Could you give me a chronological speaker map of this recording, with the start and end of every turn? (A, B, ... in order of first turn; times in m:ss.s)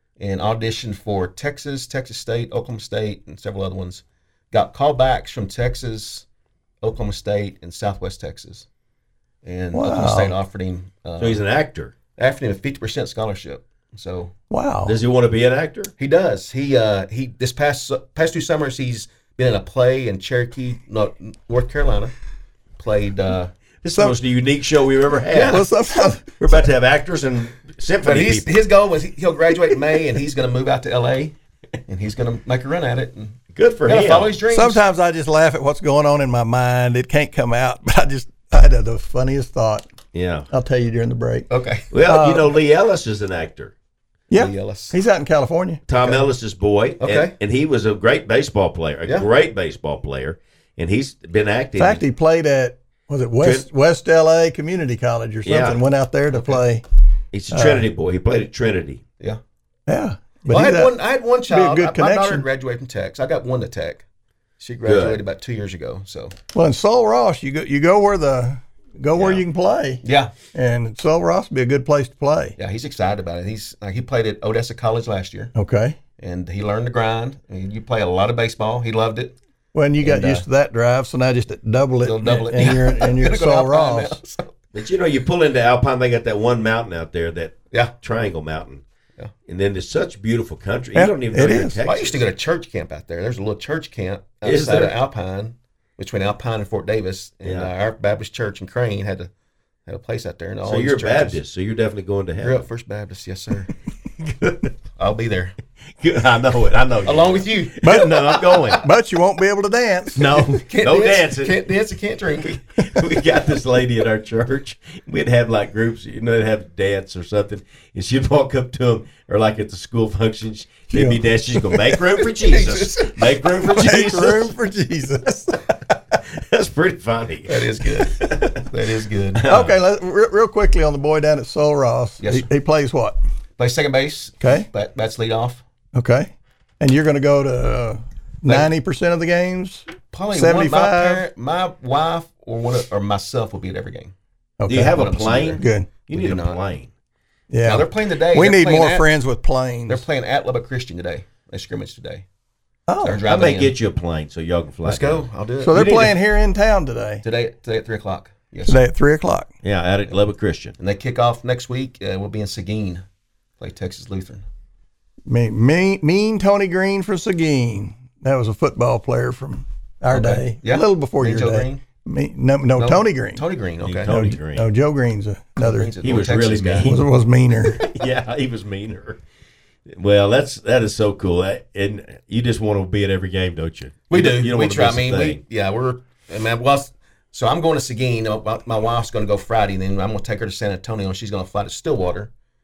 0:00.2-0:06.2 A
0:06.8-0:08.7 A
0:09.4-0:11.4 A
0:09.7-0:10.3 B
0:11.2-0:11.9 C
0:12.2-0:14.3 A
0:14.5-0:15.0 B
0:14.8-0:15.9 C
0:16.0-0:22.1 A
0:22.8-0:23.5 A
0:23.8-0:25.6 C
0:25.3-0:25.6 A
0:25.5-0:26.3 B
0:26.4-0:28.6 C
0:28.0-0:31.4 A
0:31.9-0:34.8 A
0:33.5-0:34.3 C
0:34.5-0:39.9 B
0:40.1-0:40.5 C
0:40.5-0:41.5 B
0:41.5-0:41.9 A
0:41.9-0:43.7 C
0:42.0-0:42.5 B
0:44.3-0:45.8 B
0:44.3-0:45.0 A
0:45.9-0:52.0 C
0:46.0-0:46.3 A
0:47.0-0:47.3 A
0:51.8-0:56.8 B
0:53.4-0:53.7 C
0:55.4-0:55.8 C
0:56.3-0:56.6 A
0:57.3-0:59.0 C
0:57.5-0:57.9 B
0:59.9-1:00.9 B
1:00.5-1:04.0 A
1:01.5-1:02.4 B
1:04.6-1:06.3 A
1:04.8-1:05.2 C
1:06.5-1:10.0 B
1:10.0-1:10.3 A
1:10.5-1:12.6 B
1:12.6-1:15.5 A
1:15.5-1:16.0 B
1:16.2-1:19.4 A
1:19.7-1:24.2 B
1:20.0-1:20.4 A
1:22.0-1:24.5 A
1:24.7-1:28.8 C
1:29.5-1:32.2 C
1:31.0-1:31.8 B
1:31.8-1:39.3 A
1:34.4-1:35.0 C
1:37.4-1:37.7 C
1:39.9-1:41.4 A
1:40.6-1:42.7 C
1:42.4-1:43.7 A
1:44.2-1:44.7 C
1:45.0-1:45.6 A
1:46.0-1:48.8 C
1:47.0-1:48.3 A
1:47.8-1:50.2 B
1:50.2-1:51.6 C
1:50.2-1:52.5 A
1:52.4-2:04.5 C
2:00.9-2:01.7 B
2:02.2-2:03.2 A
2:03.7-2:05.6 B
2:06.3-2:08.6 C
2:07.5-2:09.4 A
2:09.4-2:09.8 C
2:09.5-2:13.2 B
2:12.2-2:12.5 A
2:13.6-2:15.6 A
2:14.4-2:14.7 B
2:15.9-2:21.2 B
2:20.1-2:24.1 A
2:24.6-2:25.0 B
2:24.7-2:26.9 C
2:24.7-2:26.6 A
2:25.6-2:25.9 B
2:27.5-2:30.0 B
2:27.6-2:29.2 A
2:29.9-2:32.2 A
2:32.9-2:33.2 B
2:33.0-2:33.8 A
2:33.2-2:36.2 C
2:34.8-2:35.9 A
2:35.6-2:37.2 B
2:37.2-2:38.8 A
2:38.7-2:39.5 B
2:39.6-2:40.8 C
2:40.8-2:43.0 A
2:43.6-2:44.4 A
2:45.3-2:53.4 B
2:50.1-2:51.8 A
2:52.8-2:54.1 A
2:53.8-2:54.7 C
2:54.1-2:55.9 B
2:55.6-2:57.0 A
2:56.0-2:57.0 C
2:56.8-2:57.8 B
2:57.8-2:59.2 C
2:59.9-3:05.4 C
3:04.1-3:12.3 A